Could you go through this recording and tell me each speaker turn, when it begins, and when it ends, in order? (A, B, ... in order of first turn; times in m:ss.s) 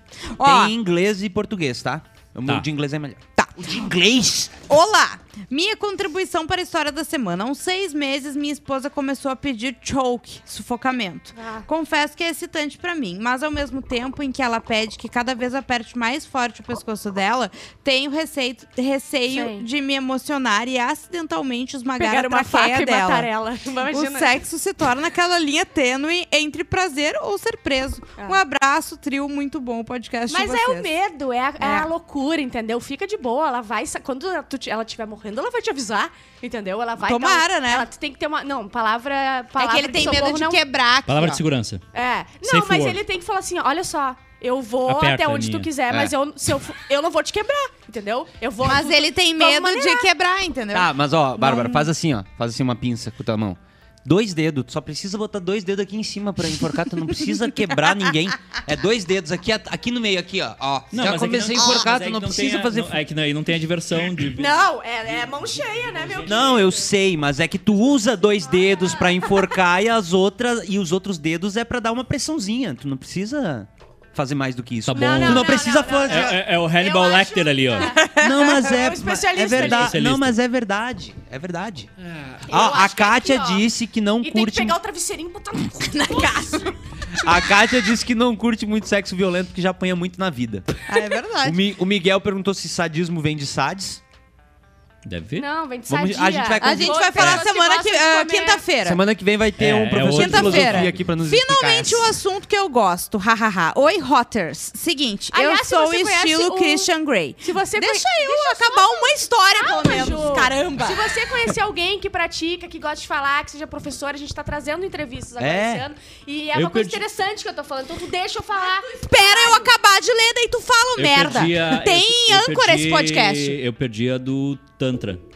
0:00.4-0:00.7 A
0:00.4-0:04.6 B
0:04.7-0:23.3 A
0:11.4-0:11.7 C
0:19.3-0:19.7 C
0:22.0-0:24.4 C
0:23.9-0:30.9 A
0:30.3-0:40.6 C
0:31.6-0:31.9 A
0:37.0-0:37.9 A
0:39.6-0:41.4 A
0:41.1-0:41.8 D
0:41.9-0:50.1 C
0:42.4-0:43.0 D
0:44.9-0:45.7 D
0:48.6-0:51.9 A
0:50.7-1:03.0 B
1:00.9-1:06.7 D
1:04.4-1:06.9 C
1:06.3-1:16.4 B
1:08.5-1:09.4 C
1:14.9-1:17.9 D
1:14.9-1:20.0 C
1:17.8-1:18.8 A
1:18.1-1:24.8 B
1:19.4-1:20.4 D
1:22.5-1:23.7 C
1:24.2-1:26.7 C
1:25.9-1:26.7 A
1:27.2-1:30.8 B
1:30.9-1:31.6 A
1:31.4-1:34.0 B
1:35.0-1:35.5 D
1:35.4-1:38.6 C
1:35.9-1:37.4 B
1:36.6-1:39.0 A
1:38.8-1:42.1 B
1:39.6-1:41.0 D
1:40.1-1:51.1 A
1:45.3-1:46.9 C
1:47.4-1:59.7 C
1:55.4-1:55.9 B
1:56.5-1:57.0 D
1:58.8-2:03.6 A
2:01.0-2:05.2 D